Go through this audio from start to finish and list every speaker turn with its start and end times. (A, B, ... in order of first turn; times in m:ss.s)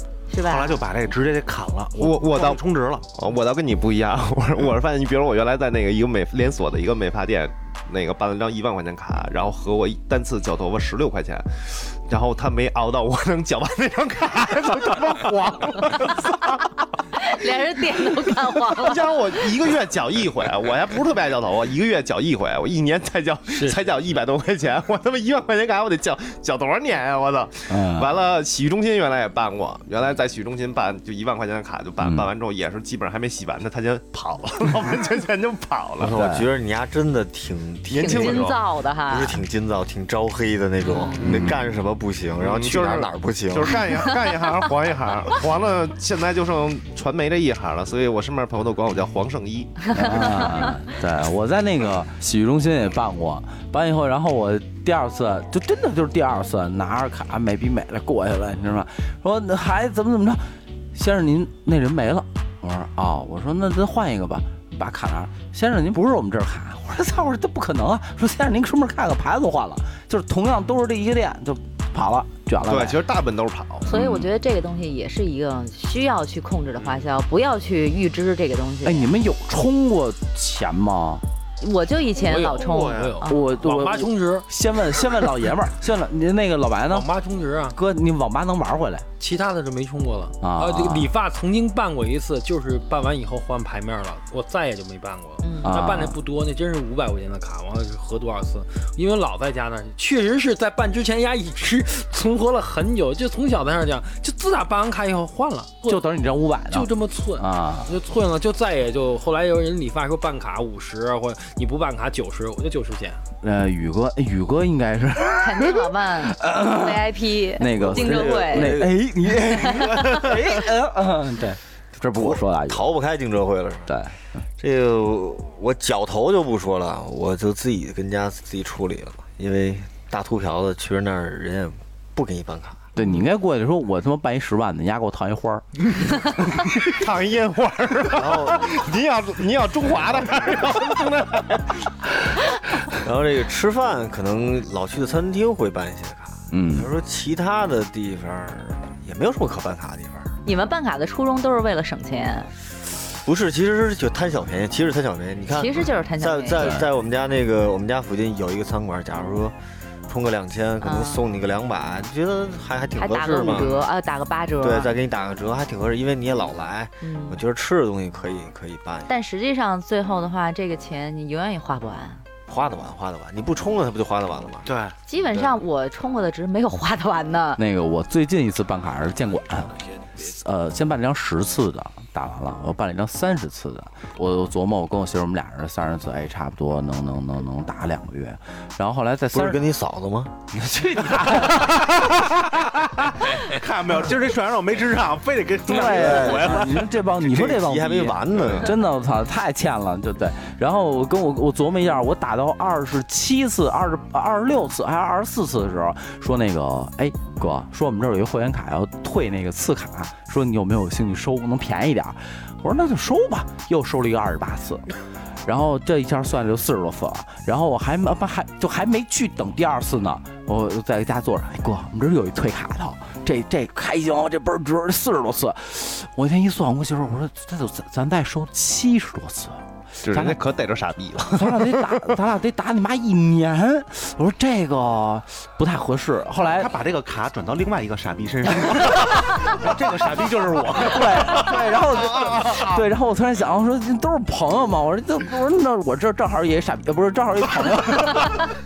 0:00.3-0:00.8 A
0:00.3-0:03.1 B
0:02.0-0:02.6 C
0:03.1-0:17.4 C
0:17.1-0:19.2 A
0:18.2-0:36.2 C
0:27.7-0:28.1 D
0:32.0-0:32.3 D
0:36.0-0:38.5 E
0:36.0-0:36.5 D
0:37.9-0:38.6 C
0:37.9-0:39.4 A
0:39.1-0:43.8 E
0:40.8-0:41.2 A
0:41.2-0:41.7 D
0:42.4-0:50.4 C
0:49.9-1:13.0 D
0:50.0-0:50.7 A
1:12.6-1:13.9 C
1:13.9-1:19.1 A
1:13.9-1:14.3 D
1:18.8-1:21.2 D
1:21.6-1:23.5 A
1:22.2-1:24.5 F
1:22.6-1:23.1 B
1:23.3-1:27.1 D
1:26.9-1:27.8 F
1:27.7-1:29.1 D
1:29.2-1:46.1 F
1:30.4-1:31.1 D
1:35.4-1:35.8 A
1:35.6-1:36.2 D
1:45.9-1:47.9 D
1:46.7-1:53.2 F
1:53.4-2:02.9 D
1:55.4-1:58.8 A
1:57.7-2:00.7 E
1:59.6-2:00.2 A
2:02.2-2:04.0 E
2:03.9-2:04.2 D
2:04.6-2:12.9 E
2:13.0-2:15.6 D
2:16.7-2:21.9 C
2:18.1-2:18.8 E
2:22.9-2:30.4 E
2:26.5-2:26.9 D
2:30.4-2:32.5 A
2:33.2-2:39.6 E
2:35.5-2:36.8 A
2:36.5-2:36.9 D
2:40.1-2:43.8 E
2:40.8-2:41.2 A
2:43.0-2:45.0 A
2:44.6-2:49.1 E
2:47.0-2:47.4 A
2:49.1-2:52.2 A
2:52.5-2:54.7 E
2:54.6-2:55.0 B
2:55.1-2:57.6 A
2:57.6-3:09.7 D
3:09.3-3:10.4 E
3:10.6-3:16.9 B
3:11.0-3:11.8 D
3:15.6-3:34.9 D
3:15.8-3:18.7 E
3:35.4-3:50.4 D
3:50.0-3:52.0 C
3:51.3-3:56.7 D
3:56.4-4:02.8 B
4:00.8-4:08.5 D